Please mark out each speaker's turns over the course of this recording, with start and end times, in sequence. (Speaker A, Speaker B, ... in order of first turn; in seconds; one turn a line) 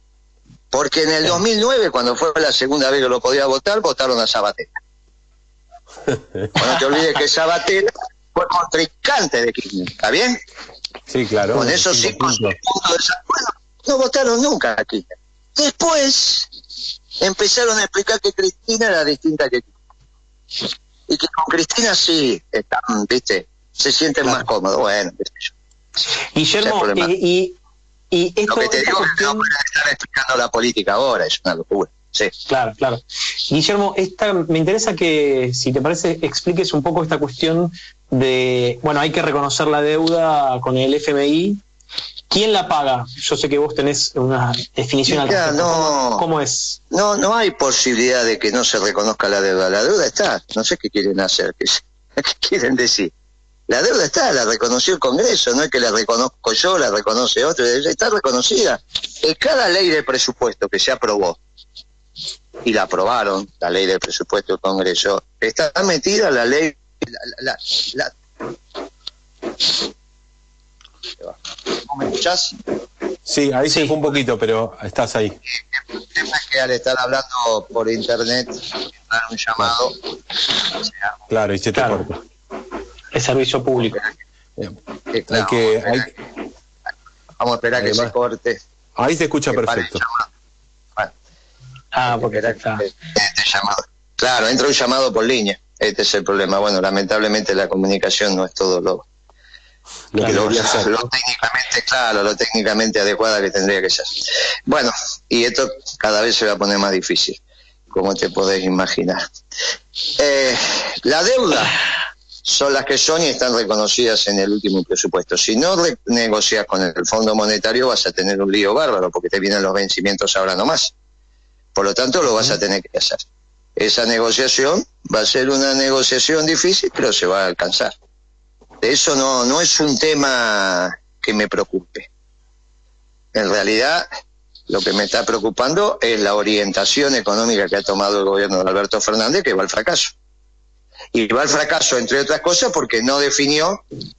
Speaker A: 0.7-4.7
Speaker B: 6.1-6.5
Speaker A: 6.5-10.4
Speaker B: 11.1-12.6
Speaker A: 11.5-16.5
Speaker A: 17.2-19.7
Speaker A: 21.1-25.5
Speaker C: 26.3-27.6
Speaker A: 26.6-27.1
Speaker C: 28.1-29.5
Speaker A: 28.5-32.3
Speaker C: 32.5-41.6
Speaker C: 42.3-46.8
Speaker A: 45.1-46.2
Speaker A: 46.9-53.1
Speaker A: 53.7-61.4
Speaker A: 62.6-68.1
Speaker A: 71.2-72.6
Speaker B: 73.2-75.4
Speaker A: 75.5-80.0
Speaker A: 80.8-81.1
Speaker B: 81.3-82.2
Speaker C: 81.7-82.0
Speaker C: 83.1-84.0
Speaker A: 85.1-86.1
Speaker B: 85.3-86.1
Speaker A: 87.4-88.6
Speaker B: 87.8-88.1
Speaker B: 89.0-90.0
Speaker A: 89.5-90.3
Speaker C: 91.9-92.8
Speaker A: 92.0-99.0
Speaker B: 100.1-100.9
Speaker C: 100.2-100.5
Speaker A: 100.2-107.4
Speaker A: 107.9-109.2
Speaker A: 110.2-111.8
Speaker A: 112.4-120.9
Speaker A: 121.7-123.2
Speaker A: 123.8-127.9
Speaker A: 128.8-132.1
Speaker A: 133.3-134.1
Speaker A: 134.7-140.1
Speaker A: 141.1-143.8